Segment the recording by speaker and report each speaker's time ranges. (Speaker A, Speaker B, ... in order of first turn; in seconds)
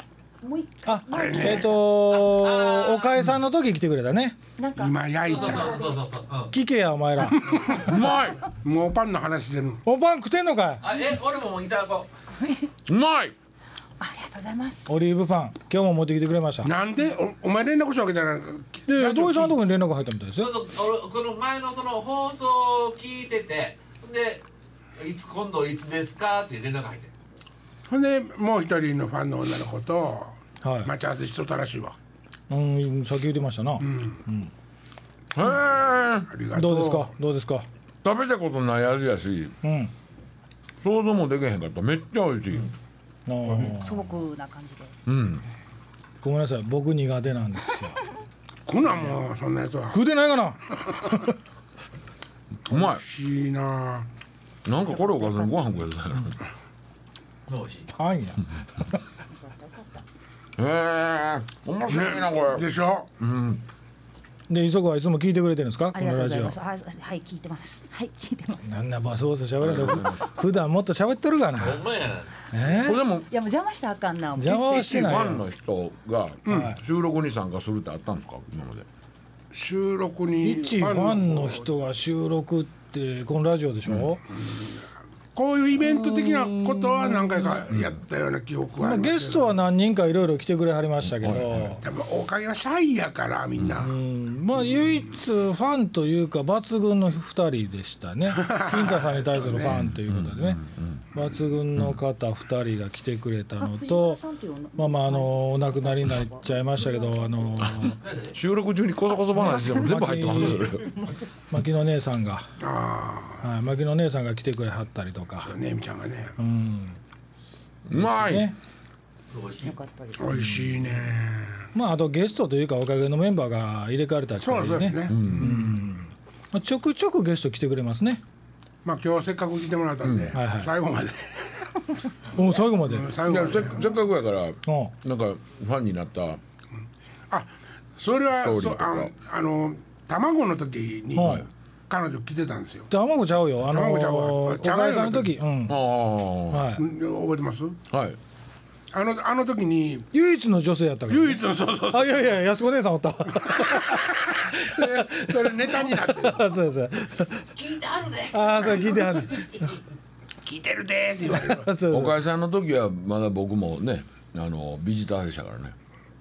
Speaker A: 0.4-1.9, 4.6-6.0, 12.4-12.7, 14.0-14.9, 43.6-44.9, 54.9-55.6, 59.4-59.8, 65.9-68.7, 73.1-75.2, 103.6-107.7, 109.4-111.2, 119.6-120.2
Speaker B: 0.8-4.4, 6.5-7.7, 9.8-10.8, 14.9-16.7, 18.9-20.5, 30.6-30.9, 32.5-34.5, 36.5-37.7, 39.6-39.9, 43.2-44.1, 46.2-48.0, 49.9-51.3, 57.9-58.9, 64.5-66.5, 68.6-71.9, 72.5-73.0, 74.4-75.4, 76.5-76.8, 80.4-84.2, 85.8-87.6, 88.8-91.8, 93.8-100.6, 101.1-104.2, 104.8-108.0, 109.3-110.8, 111.5-112.5, 113.4-115.5, 116.4-117.0, 117.9-118.5, 120.3-120.8, 121.7-128.2, 130.3-130.7, 132.3-133.1, 134.7-134.9, 141.1-141.4, 142.9-145.8, 146.5-146.8, 150.1-157.4, 158.3-159.7, 161.3-162.2
Speaker C: 1.1-1.7, 4.8-5.8, 7.2-8.1, 8.6-9.8, 16.6-19.6, 27.9-31.9, 33.8-34.2, 36.3-37.1, 48.7-50.0, 52.7-54.1, 61.9-63.1, 76.5-76.7, 79.5-81.7, 84.3-84.8, 85.3-89.5, 91.8-94.0, 94.5-95.0, 98.3-99.8, 112.6-113.4, 115.4-116.4, 120.2-121.7, 124.4-125.8, 128.8-131.8, 132.4-133.9, 137.3-142.9, 143.7-145.3, 146.8-147.8, 148.9-150.1, 151.1-152.3, 153.5-156.5, 160.4-161.8
Speaker D: 2.1-3.1, 5.3-6.5, 10.8-12.1, 20.4-24.4, 25.0-27.1, 57.5-57.9, 71.5-72.5, 108.0-108.3, 119.3-119.7, 157.5-159.2
Speaker E: 7.7-8.4, 12.9-13.3, 35.3-36.3, 38.0-39.6, 40.8-42.7, 45.0-45.4, 52.6-53.0, 54.6-56.4, 60.6-62.7, 63.2-63.6, 69.6-70.2, 72.8-73.3, 74.7-78.9, 83.8-84.2, 91.0-91.8, 93.6-93.8, 99.7-102.0, 107.6-110.9, 117.8-118.5, 125.1-125.5, 130.0-130.3, 133.2-136.4, 138.4-139.1, 141.2-141.4, 145.7-146.7, 147.9-148.2, 161.9-165.7